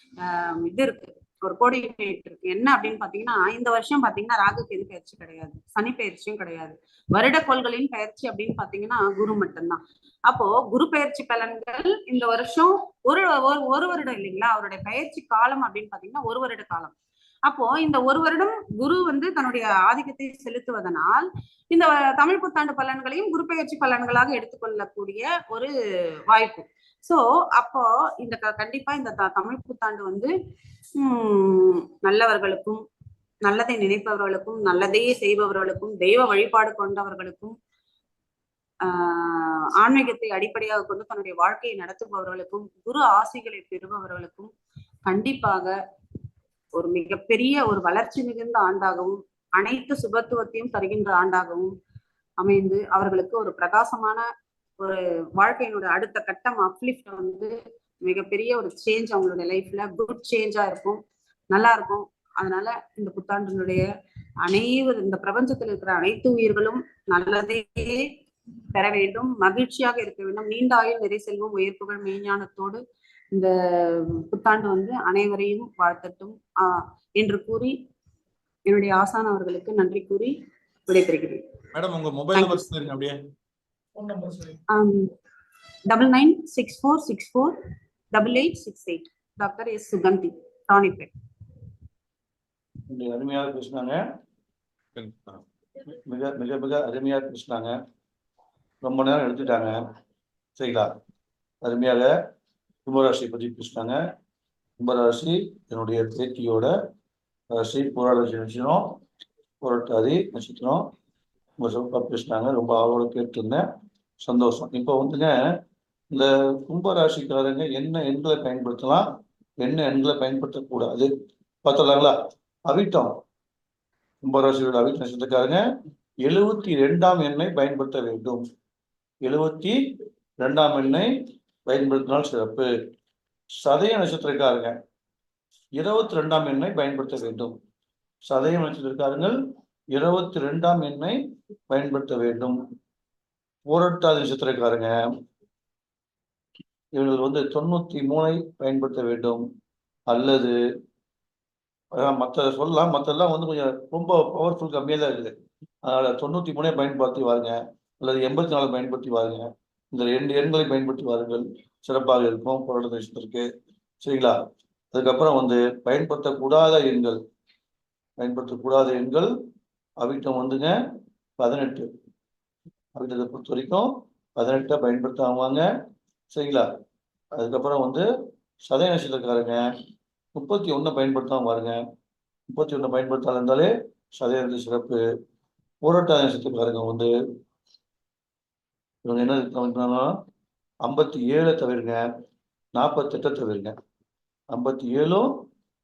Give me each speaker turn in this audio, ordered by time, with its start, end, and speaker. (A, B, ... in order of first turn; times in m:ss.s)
0:00.2-0:16.9 A
0:17.5-0:25.7 A
0:26.3-0:30.3 A
0:31.0-0:32.8 A
0:33.4-0:37.6 A
0:38.8-0:44.5 A
0:45.0-0:45.7 A
0:46.7-0:51.7 A
0:52.4-0:54.2 A
0:54.8-1:01.0 A
1:01.5-1:03.9 A
1:04.4-1:08.1 A
1:08.7-1:12.8 A
1:13.3-1:17.8 A
1:18.7-1:20.3 A
1:20.9-1:21.4 A
1:21.7-1:23.2 B
1:22.4-1:22.6 A
1:24.0-1:24.6 B
1:24.7-1:25.1 A
1:25.9-1:27.6 A
1:28.1-1:31.1 A
1:32.9-1:34.0 C
1:35.0-1:35.4 B
1:35.9-1:37.7 C
1:38.8-1:39.8 C
1:40.6-1:40.9 C
1:41.6-1:42.1 C
1:42.8-1:44.0 C
1:44.8-1:46.7 C
1:47.5-1:49.0 C
1:49.6-1:50.8 C
1:51.6-1:53.6 C
1:54.2-1:55.4 C
1:56.1-1:59.0 C
1:59.6-2:01.1 C
2:01.6-2:02.1 C
2:02.7-2:03.2 C
2:04.2-2:05.6 C
2:06.2-2:08.4 C
2:09.2-2:09.8 C
2:10.4-2:11.1 C
2:11.7-2:12.7 C
2:13.6-2:14.8 C
2:15.8-2:17.6 C
2:18.2-2:19.4 C
2:19.9-2:21.2 C
2:21.7-2:22.6 C
2:23.6-2:24.9 C
2:26.9-2:29.4 C
2:30.1-2:30.5 C
2:31.9-2:35.3 C
2:35.8-2:43.5 C
2:44.0-2:44.4 C
2:44.9-2:47.2 C
2:48.2-2:49.3 C
2:50.0-2:50.8 C
2:51.4-2:51.9 C
2:52.9-2:55.7 C
2:56.3-2:56.7 C
2:57.4-2:58.0 C
2:58.7-2:59.6 C
3:00.3-3:01.8 C
3:02.5-3:05.0 C
3:05.8-3:07.1 C
3:09.0-3:10.1 C
3:10.8-3:12.0 C
3:12.7-3:13.7 C
3:14.5-3:15.4 C